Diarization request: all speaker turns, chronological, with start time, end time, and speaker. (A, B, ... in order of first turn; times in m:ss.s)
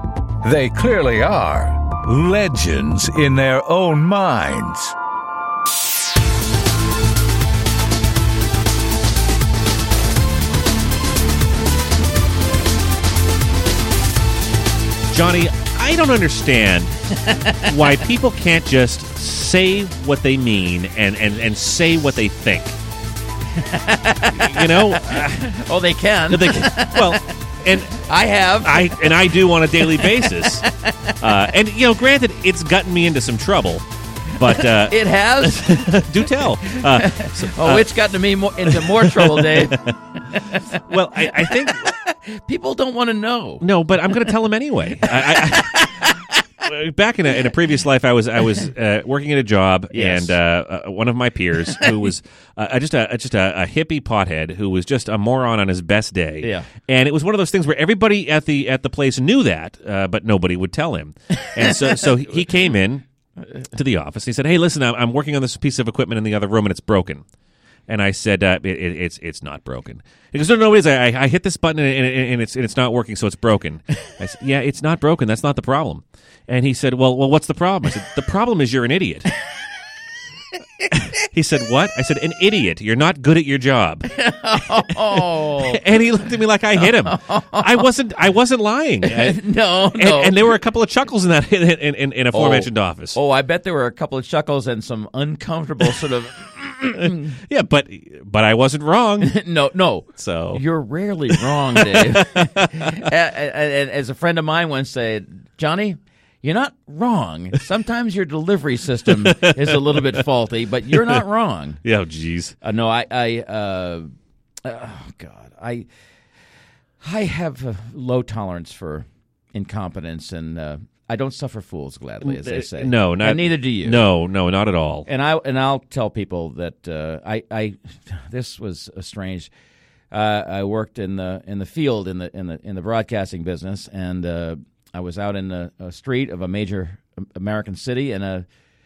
0:00.4-0:05.0 A
0:15.1-0:16.9 B
0:17.2-0:18.0 C
0:17.5-0:22.8 B
0:23.6-0:27.3 C
0:24.4-0:25.4 B
0:26.3-0:28.0 B
0:27.9-0:31.1 C
0:28.6-0:30.7 B
0:31.2-0:37.9 B
0:34.4-0:44.4 C
0:38.6-0:40.0 B
0:40.5-0:41.9 B
0:43.6-0:46.1 B
0:45.0-0:46.4 C
0:46.6-1:03.0 B
0:49.9-0:50.4 C
0:51.7-0:52.0 C
0:56.4-0:56.7 C
1:01.5-1:02.0 C
1:03.7-1:07.2 B
1:07.9-1:19.3 B
1:21.1-1:24.1 B
1:24.1-1:25.8 C
1:24.9-1:33.2 B
1:26.7-1:27.9 C
1:29.0-1:30.6 C
1:32.3-1:37.4 C
1:36.9-1:39.4 B
1:39.2-1:51.8 C
1:40.2-1:40.6 B
1:41.3-1:43.1 B
1:49.1-1:50.2 B
1:50.9-1:51.2 B
1:51.8-1:52.6 B
1:52.6-1:54.1 C
1:54.6-1:55.9 C
1:57.0-2:04.1 C
2:02.2-2:05.1 B
2:05.1-2:09.5 C
2:10.1-2:18.5 C